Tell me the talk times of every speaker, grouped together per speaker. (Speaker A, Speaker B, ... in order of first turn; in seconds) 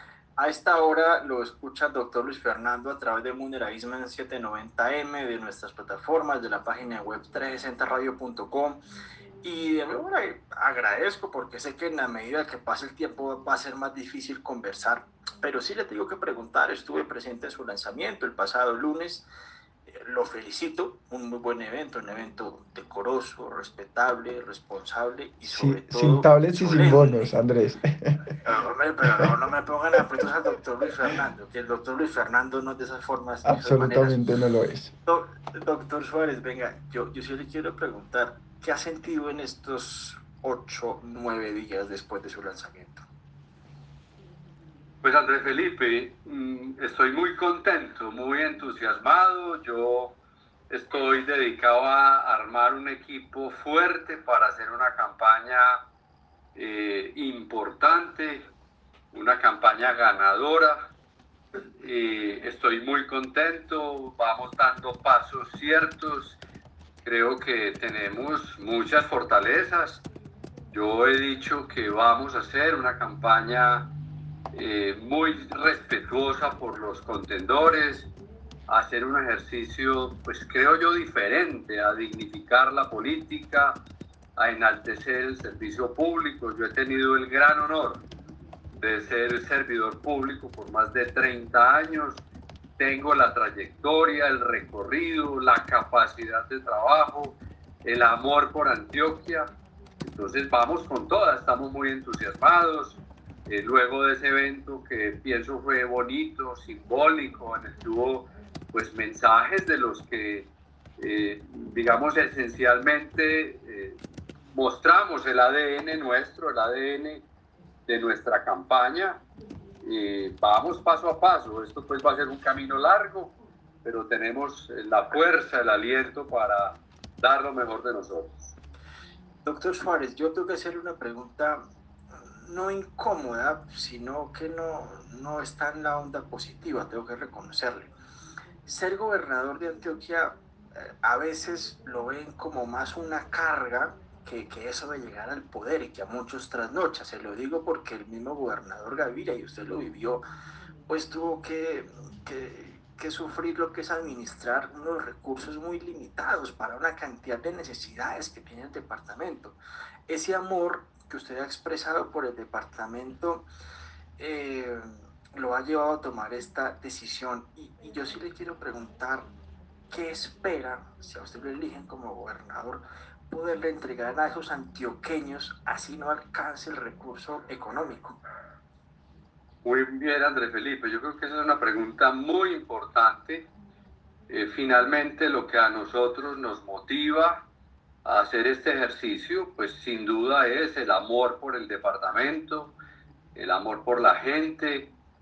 Speaker A: 0.4-8.8, 9.4-19.3, 19.9-27.3, 28.4-34.2, 35.1-43.0, 129.4-131.6, 132.4-137.9, 138.7-150.2, 150.9-163.5, 164.2-169.3, 169.9-178.2
Speaker B: 25.5-28.2, 33.4-34.9
Speaker C: 45.0-50.2, 50.7-55.8, 56.5-58.5, 59.1-60.9, 61.8-66.4, 67.0-70.0, 70.7-73.9, 74.5-78.1, 78.7-83.8, 84.4-88.1, 88.8-92.2, 92.8-99.5, 100.0-114.0, 114.5-117.3, 117.9-119.2, 119.8-128.5, 179.7-183.5, 184.3-187.5, 188.1-192.8, 193.4-194.9